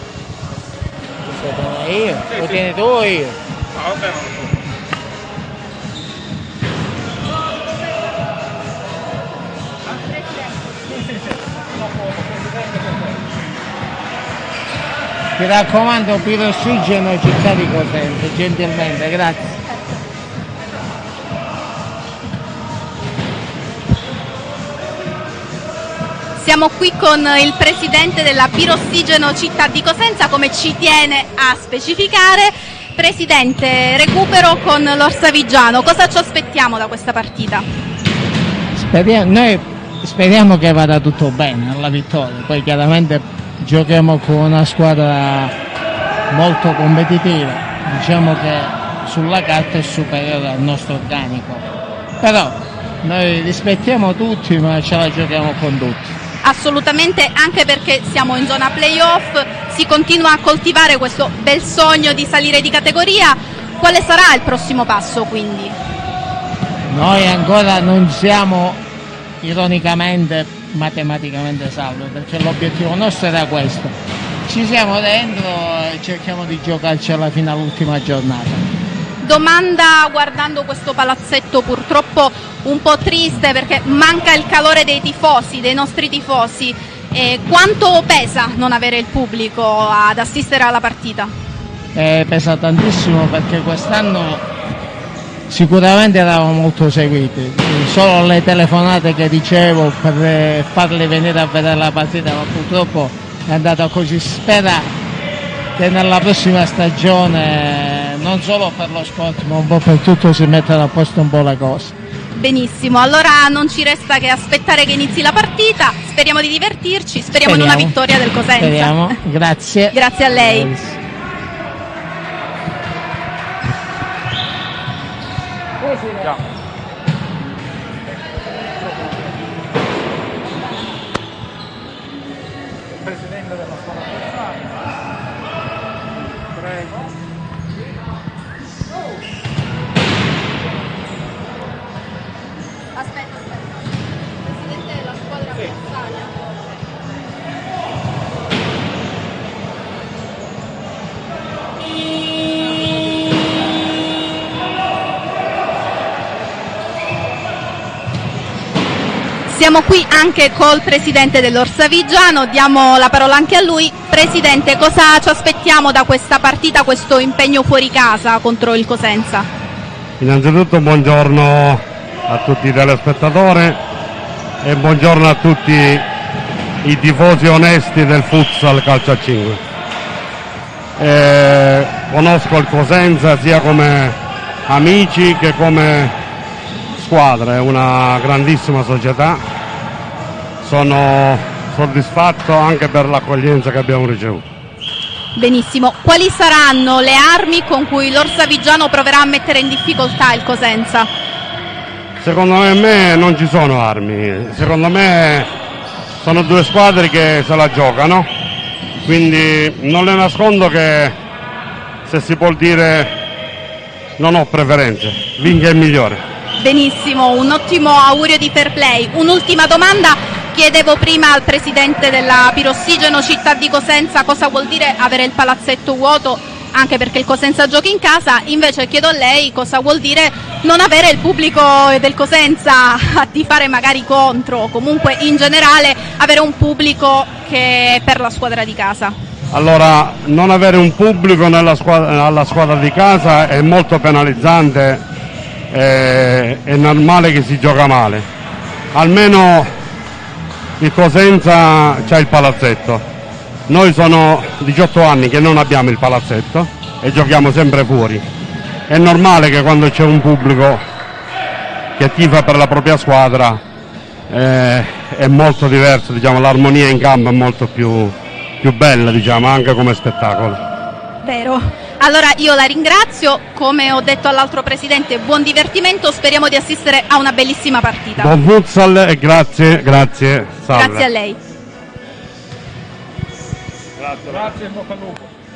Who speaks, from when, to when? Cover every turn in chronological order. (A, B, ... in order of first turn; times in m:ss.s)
0:01.3-0:03.4 A
0:03.8-0:04.5 B
0:15.4-0:19.6 A
0:26.4-0:37.6 C
0:38.8-0:45.5 A
0:46.3-0:51.6 A
0:52.2-0:56.1 A
0:56.4-1:05.8 C
1:06.9-1:08.8 A
1:09.4-1:18.6 A
1:19.2-1:31.3 C
1:31.9-1:34.4 A
1:35.5-1:44.9 A
1:45.8-1:51.9 A
1:52.4-1:59.2 C
1:57.4-1:57.9 A
1:58.6-2:01.0 A
1:59.9-2:00.7 C
2:12.9-2:14.3 B
2:16.6-2:16.9 B
2:39.5-2:49.5 C
2:50.2-2:53.8 D
2:54.6-2:56.1 D
2:56.8-2:59.6 D
3:01.0-3:04.2 D
3:04.7-3:06.1 D
3:07.0-3:09.4 D
3:10.6-3:14.4 D
3:15.4-3:21.1 C
3:22.2-3:25.5 D
3:26.2-3:28.3 D
3:29.0-3:31.2 D
3:32.0-3:33.1 D
3:34.2-3:36.2 D
3:36.6-3:59.2 C
3:59.5-4:05.0 D
4:05.7-4:08.2 D
4:08.9-4:09.7 D
4:10.8-4:13.0 D
4:13.7-4:18.2 D
4:18.9-4:20.8 D
4:22.0-4:23.6 D
4:24.3-4:30.6 D
4:31.2-4:38.3 C
4:38.2-4:41.1 D
4:40.7-4:41.4 C
4:44.0-4:45.3 B